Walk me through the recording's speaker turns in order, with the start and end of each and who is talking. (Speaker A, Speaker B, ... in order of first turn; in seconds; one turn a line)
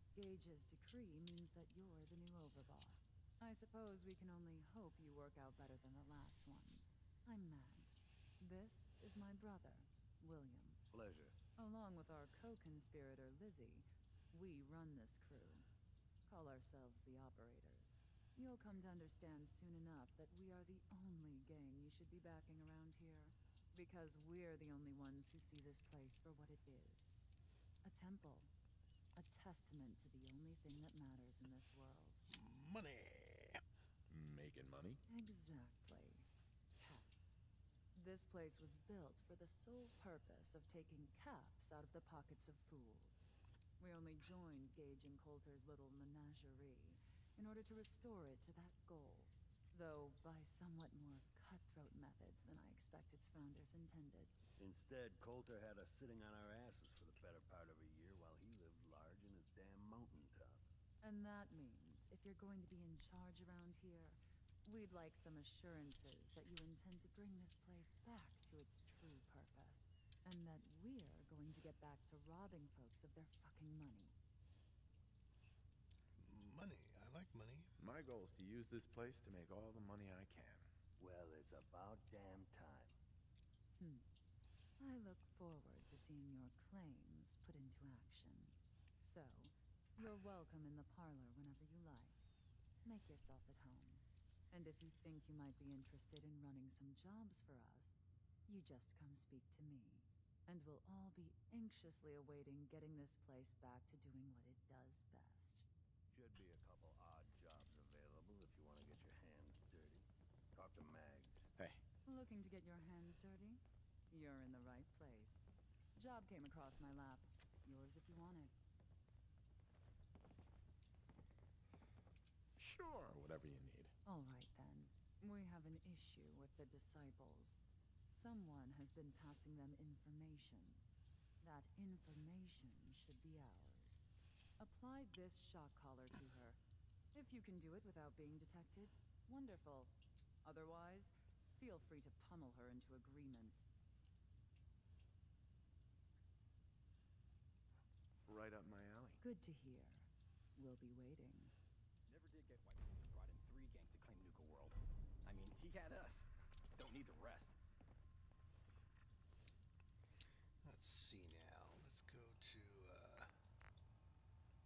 Speaker A: 0.1-10.8
Speaker B: 10.9-11.3
Speaker A: 11.6-15.7
Speaker A: 16.3-27.1
Speaker A: 27.8-28.5
Speaker A: 29.1-32.2
Speaker C: 32.3-33.6
Speaker D: 34.1-35.0
Speaker A: 35.1-37.3
Speaker A: 37.9-43.3
Speaker A: 43.8-54.3
Speaker B: 54.6-60.7
Speaker A: 61.0-74.1
Speaker C: 76.2-77.7
Speaker D: 77.8-80.7
Speaker B: 81.0-82.9
Speaker A: 83.8-84.1
Speaker A: 84.8-92.2
Speaker A: 92.8-105.7
Speaker B: 106.1-111.5
Speaker D: 111.6-111.8
Speaker A: 112.0-115.4
Speaker A: 116.0-118.6
Speaker D: 122.6-123.9
Speaker A: 124.0-130.8
Speaker A: 131.4-134.0
Speaker A: 134.6-136.6
Speaker A: 137.1-143.6
Speaker D: 148.2-149.2
Speaker A: 149.2-151.5
Speaker E: 152.1-157.6
Speaker C: 160.6-163.4